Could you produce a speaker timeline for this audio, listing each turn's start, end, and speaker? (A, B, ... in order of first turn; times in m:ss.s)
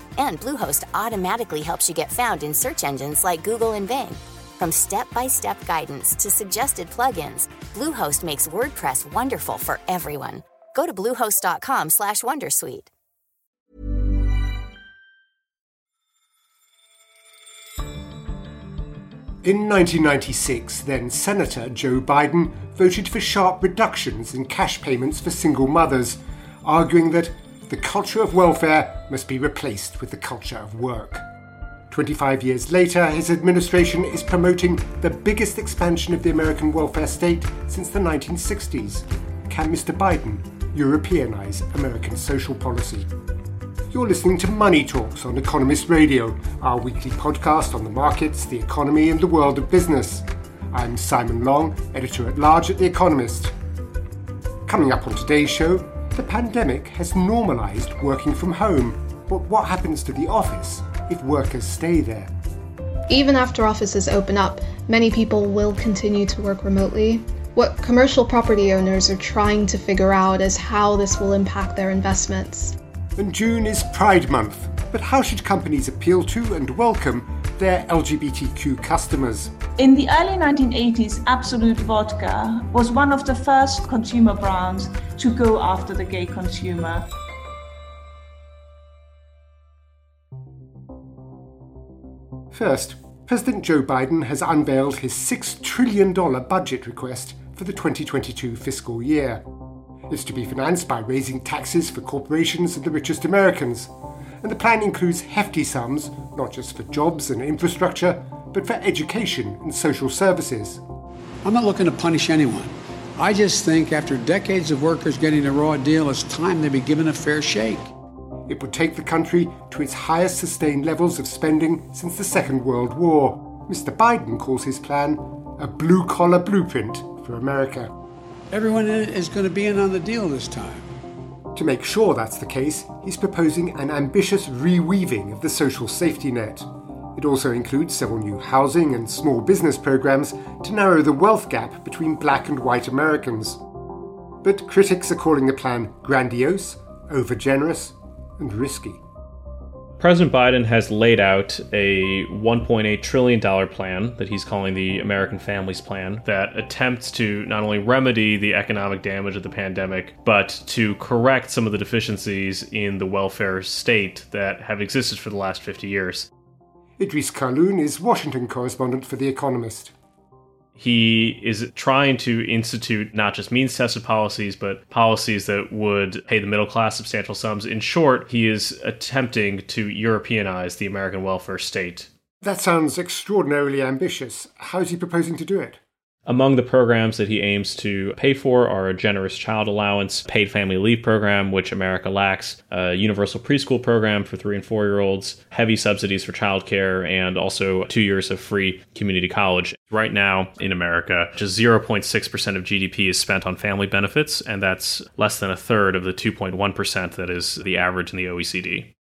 0:00.2-0:12.9 A
0:19.4-0:31.3 B
0:31.9-0:43.1 B
0:43.9-0:53.5 B
0:54.7-1:02.3 B
1:03.1-1:12.8 C
1:13.2-1:19.5 B
1:19.8-1:27.1 D
1:32.5-1:39.4 B
1:40.1-1:43.9 B
1:44.4-1:50.8 B
1:51.4-1:57.9 E
1:58.5-2:07.9 B
2:08.5-2:10.9 E
2:11.5-2:23.6 B
2:24.4-2:29.0 B
2:30.0-2:46.3 F
2:47.0-2:49.9 B
2:50.8-3:02.1 F
3:02.4-3:05.8 B
3:06.3-3:28.9 F